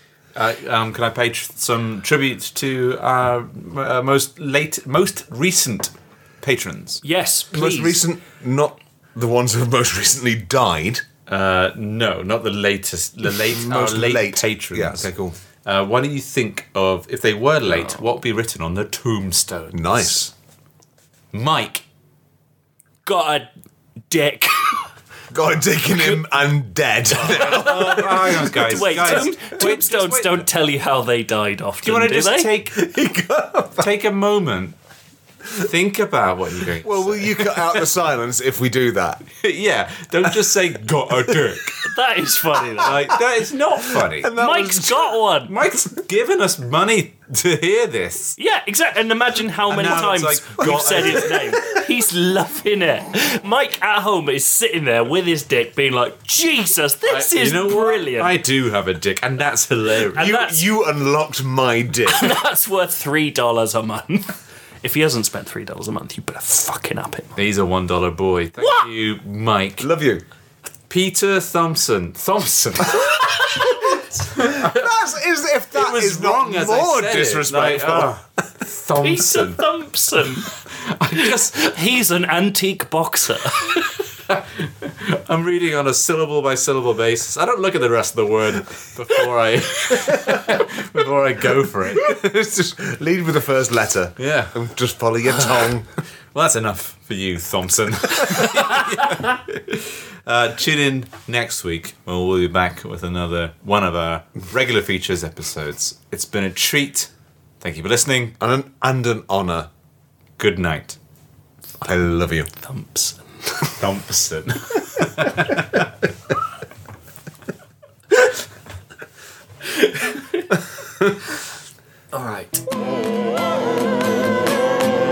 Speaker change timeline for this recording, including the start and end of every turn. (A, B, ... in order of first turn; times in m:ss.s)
0:00.4-0:07.0 A
0:07.0-0:08.0 B
0:07.5-0:11.0 C
0:11.3-0:15.1 A
0:13.5-0:15.4 C
0:15.6-0:20.3 A
0:19.7-0:20.3 C
0:21.3-0:21.8 A
0:23.0-0:23.5 B
0:24.1-0:24.9 B
0:25.3-0:29.2 C
0:27.2-0:32.5 B
0:27.2-0:30.5 A
0:31.8-0:32.8 A
0:32.7-0:33.9 C
0:33.8-0:34.8 A
0:35.6-0:37.5 A
0:36.8-0:39.3 C
0:39.4-0:41.8 A
0:41.8-0:43.0 B
0:42.8-0:44.3 A
0:43.9-0:45.2 C
0:44.3-0:45.5 B
0:45.5-0:48.4 A
0:48.4-0:58.3 B
0:49.7-0:51.6 A
0:50.6-0:51.5 C
0:57.1-1:00.4 A
1:00.1-1:02.4 C
1:00.2-1:00.6 B
1:02.1-1:07.4 B
1:07.4-1:09.9 A
1:09.8-1:10.2 C
1:10.9-1:13.4 A
1:13.9-1:14.9 A
1:14.4-1:18.1 C
1:15.7-1:19.7 A
1:19.0-1:20.5 B
1:20.8-1:21.5 A
1:21.1-1:24.0 B
1:24.3-1:32.1 A
1:32.0-1:35.9 C
1:34.2-1:34.6 A
1:36.3-1:47.1 A
1:47.6-1:48.4 A
1:48.4-1:49.7 C
1:50.4-1:51.0 A
1:51.8-1:52.5 C
1:52.5-1:53.7 B
1:53.8-1:55.9 A
2:02.1-2:02.6 B